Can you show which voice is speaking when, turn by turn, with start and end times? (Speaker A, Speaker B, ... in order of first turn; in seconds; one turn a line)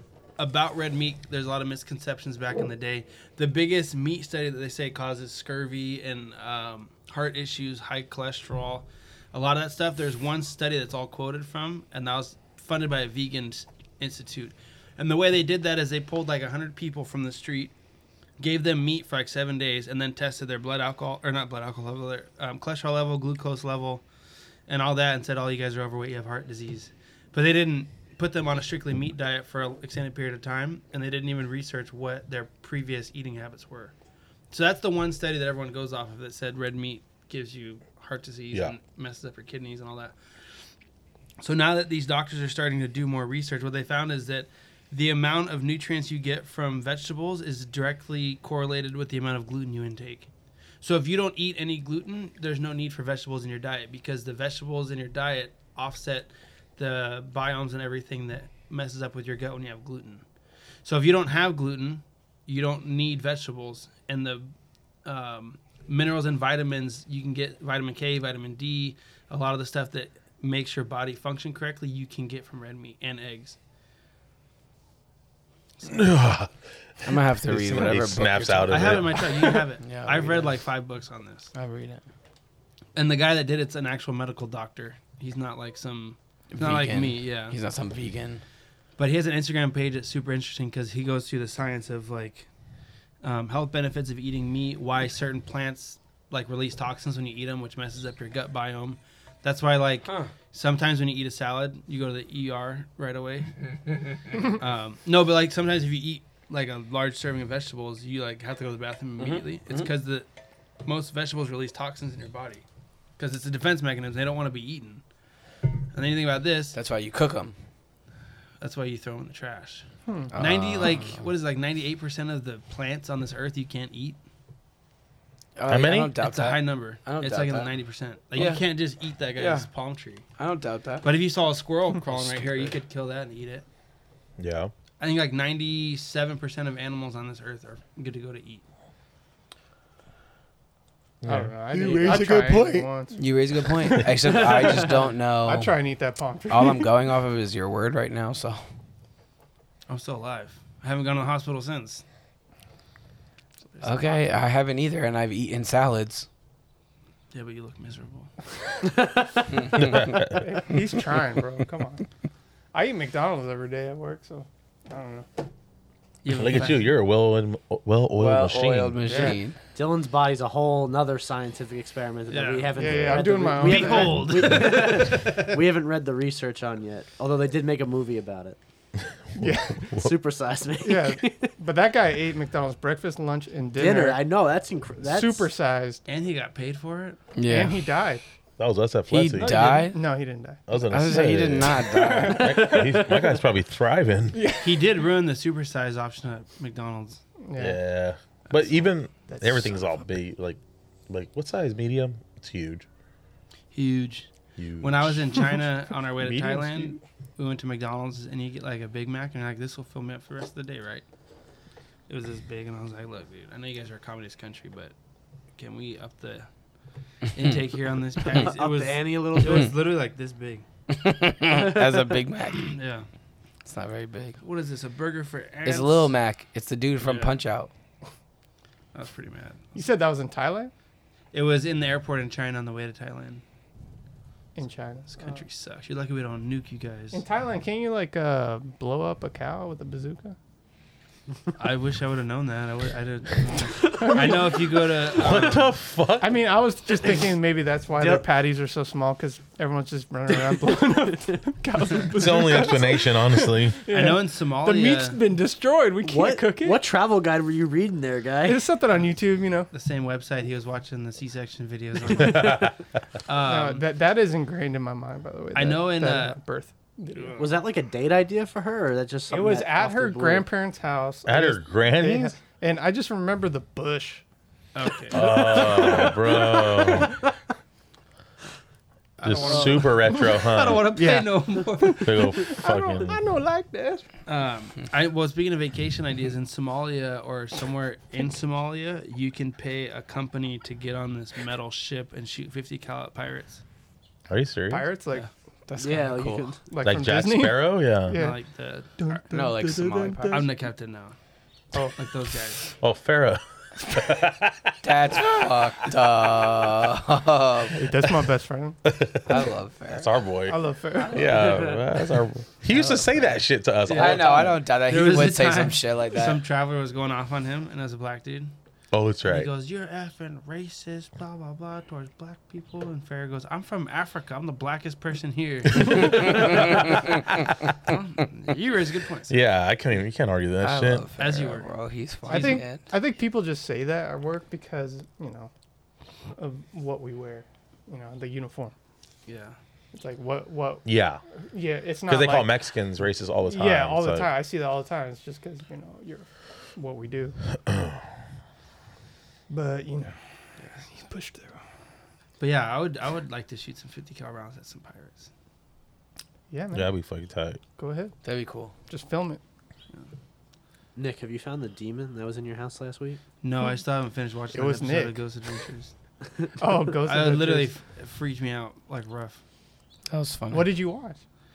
Speaker A: 0.4-17.7
Speaker A: 18.4-24.0
Speaker A: 24.7-33.9
Speaker A: 34.5-40.1
Speaker A: 41.4-50.3
Speaker A: 50.8-60.2
Speaker A: 60.8-64.5
Speaker A: 65.0-73.6
Speaker B: 75.8-76.5
Speaker B: 77.0-79.6
Speaker C: 77.0-79.1
Speaker A: 78.7-81.5
Speaker C: 79.8-80.5
Speaker C: 81.5-82.0
Speaker A: 83.0-87.6
Speaker C: 86.5-88.4
Speaker A: 89.0-92.5
Speaker A: 93.2-103.7
Speaker A: 104.4-110.3
Speaker C: 109.2-109.9
Speaker A: 110.8-112.6
Speaker A: 113.2-115.0
Speaker A: 115.9-116.8
Speaker C: 116.7-117.5
Speaker A: 118.6-124.2
Speaker D: 120.1-120.3
Speaker C: 120.3-121.2
Speaker C: 125.5-127.7
Speaker B: 125.7-126.2
Speaker A: 126.2-130.2
Speaker C: 128.3-128.6
Speaker C: 129.3-129.7
Speaker C: 130.4-131.1
Speaker A: 131.0-133.6
Speaker C: 132.1-132.7
Speaker B: 134.4-134.7
Speaker A: 135.0-138.6
Speaker B: 141.2-142.9
Speaker D: 141.2-144.9
Speaker C: 141.9-142.2
Speaker C: 143.2-145.7
Speaker E: 144.2-145.0
Speaker D: 145.4-146.9
Speaker C: 146.5-148.6
Speaker A: 149.9-152.0
Speaker A: 153.7-154.2
Speaker C: 153.8-156.3
Speaker A: 157.3-158.3
Speaker D: 159.7-162.0
Speaker B: 159.7-160.4
Speaker D: 162.7-165.3
Speaker A: 166.2-166.9
Speaker B: 166.3-169.3
Speaker C: 168.2-169.6
Speaker D: 169.0-169.4
Speaker E: 169.7-178.6
Speaker A: 172.3-175.3
Speaker D: 172.8-174.6
Speaker D: 179.3-180.0
Speaker B: 179.4-180.1
Speaker E: 179.9-181.5
Speaker D: 180.8-184.2
Speaker E: 183.8-185.5
Speaker D: 185.0-186.0
Speaker A: 186.1-187.2
Speaker C: 187.3-187.8
Speaker D: 187.4-188.2
Speaker B: 188.6-189.7
Speaker C: 189.1-190.0
Speaker D: 189.4-190.6
Speaker B: 190.7-194.4
Speaker C: 190.9-192.8
Speaker D: 191.8-193.3
Speaker D: 194.3-194.8
Speaker A: 194.6-197.2
Speaker D: 197.4-197.8
Speaker B: 197.6-202.9
Speaker A: 198.5-198.8
Speaker D: 199.3-199.9
Speaker A: 203.7-204.3
Speaker B: 204.6-205.4
Speaker A: 204.8-211.1
Speaker D: 206.2-207.0
Speaker A: 212.1-214.9
Speaker A: 215.6-216.5
Speaker A: 217.3-220.7
Speaker C: 217.3-217.6
Speaker E: 218.3-219.7
Speaker C: 220.9-222.8
Speaker E: 221.5-222.1
Speaker A: 222.7-223.1
Speaker C: 223.6-224.4
Speaker A: 224.4-226.1
Speaker C: 225.6-227.7
Speaker A: 227.0-227.3
Speaker A: 228.9-229.8
Speaker D: 229.7-230.7
Speaker A: 231.3-233.4
Speaker D: 234.6-235.4
Speaker A: 235.1-237.2
Speaker D: 237.1-240.3
Speaker A: 241.6-245.7
Speaker D: 243.9-244.6
Speaker B: 245.1-246.4
Speaker D: 246.2-256.8
Speaker E: 248.0-248.3
Speaker E: 250.5-250.7
Speaker B: 252.1-253.8
Speaker A: 253.9-255.2
Speaker E: 256.0-258.6
Speaker D: 258.4-259.7
Speaker A: 259.7-262.7
Speaker B: 262.2-262.7
Speaker A: 263.2-263.8
Speaker D: 263.3-267.5
Speaker A: 265.5-266.4
Speaker A: 267.1-267.5
Speaker E: 267.4-270.5
Speaker D: 269.3-274.2
Speaker B: 271.2-272.3
Speaker A: 274.7-276.1
Speaker B: 275.1-277.2
Speaker D: 275.1-277.1
Speaker A: 279.2-282.1
Speaker B: 279.2-280.9
Speaker D: 279.2-284.1
Speaker B: 282.0-283.2
Speaker A: 284.3-293.6
Speaker B: 294.3-294.9
Speaker D: 294.7-298.4
Speaker C: 295.7-296.5
Speaker E: 295.8-296.6
Speaker B: 296.8-298.2
Speaker A: 298.1-299.2
Speaker D: 299.0-300.5
Speaker C: 299.3-300.5
Speaker A: 300.3-301.1
Speaker D: 301.7-302.1
Speaker A: 301.9-302.8
Speaker B: 302.8-304.8
Speaker C: 304.8-308.0
Speaker D: 307.7-308.8
Speaker B: 308.9-309.4
Speaker C: 309.2-310.1
Speaker B: 309.9-314.5
Speaker D: 310.5-311.4
Speaker E: 311.3-311.8
Speaker C: 312.7-313.1
Speaker A: 313.9-318.5
Speaker C: 313.9-316.4
Speaker B: 318.9-319.5
Speaker A: 319.2-327.2
Speaker A: 327.8-329.4
Speaker B: 329.3-331.1
Speaker C: 330.6-332.9
Speaker A: 331.2-332.6
Speaker D: 332.3-335.5
Speaker D: 336.4-338.7
Speaker A: 339.3-339.6
Speaker D: 339.9-340.9
Speaker B: 340.9-341.2
Speaker D: 341.4-342.5
Speaker B: 342.1-344.3
Speaker D: 343.5-347.8
Speaker D: 349.5-350.2
Speaker D: 350.9-351.6
Speaker A: 352.4-355.3
Speaker D: 356.5-356.9
Speaker B: 356.7-357.6
Speaker D: 357.8-358.1
Speaker C: 358.2-358.7
Speaker D: 358.9-359.4
Speaker E: 360.9-363.2
Speaker A: 363.4-365.9
Speaker D: 364.5-365.2
Speaker D: 366.6-367.7
Speaker A: 367.0-369.4
Speaker C: 370.1-370.7
Speaker D: 370.5-371.2